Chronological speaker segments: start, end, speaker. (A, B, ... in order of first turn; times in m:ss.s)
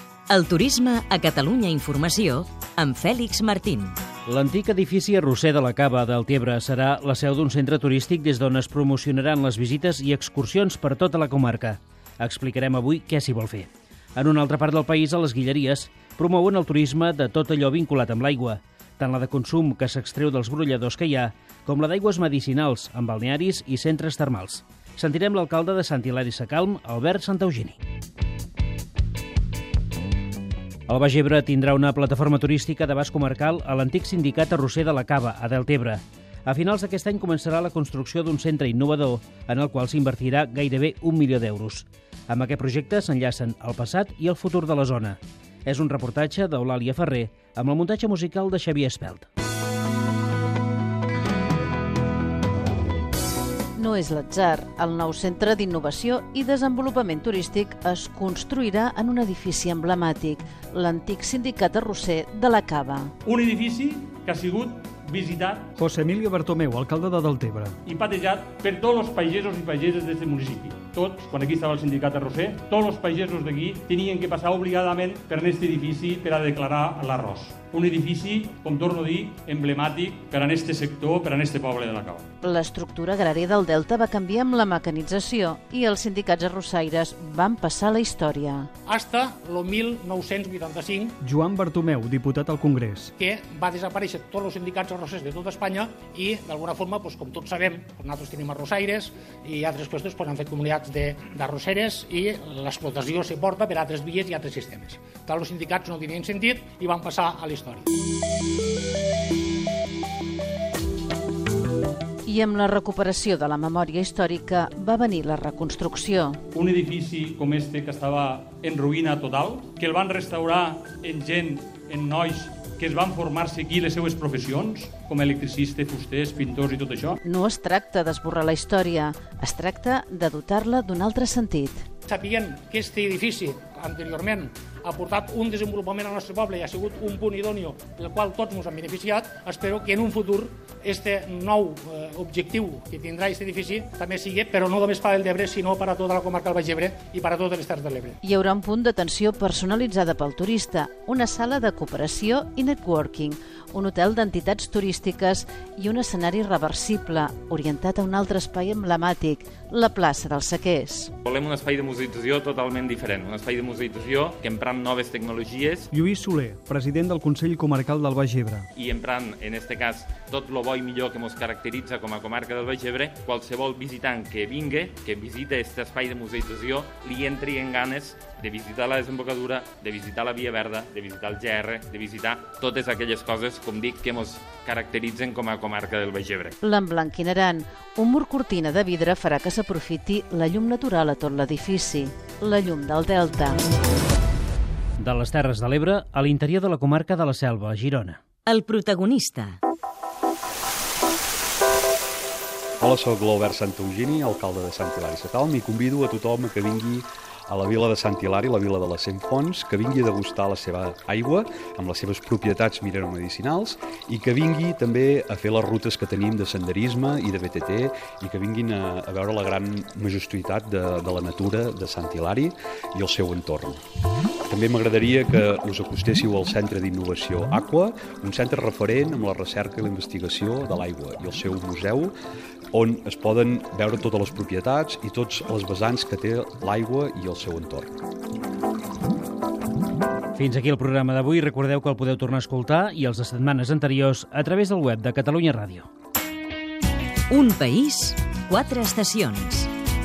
0:00.3-0:04.0 A
0:04.3-0:27.8 B
0:30.9-0:49.3 B
0:53.8-1:03.1 C
1:03.2-1:05.7 D
1:05.8-1:07.8 E
1:07.9-1:22.2 D
1:22.4-1:28.7 C
1:28.9-1:31.2 F
1:31.2-1:33.1 E
1:33.2-1:47.9 F
1:52.3-1:56.4 C
1:56.5-2:07.2 D
2:07.2-2:11.9 C
2:12.1-2:28.2 F
2:28.2-2:41.1 C
2:41.2-2:45.9 G
2:45.9-2:48.7 E
2:48.8-3:06.6 G
3:06.6-3:13.6 C
3:15.0-3:18.2 B
3:18.5-3:19.6 A
3:22.8-3:43.8 H
3:44.5-3:52.1 H
3:52.7-3:57.9 H
4:00.4-4:05.9 B
4:07.3-4:09.7 A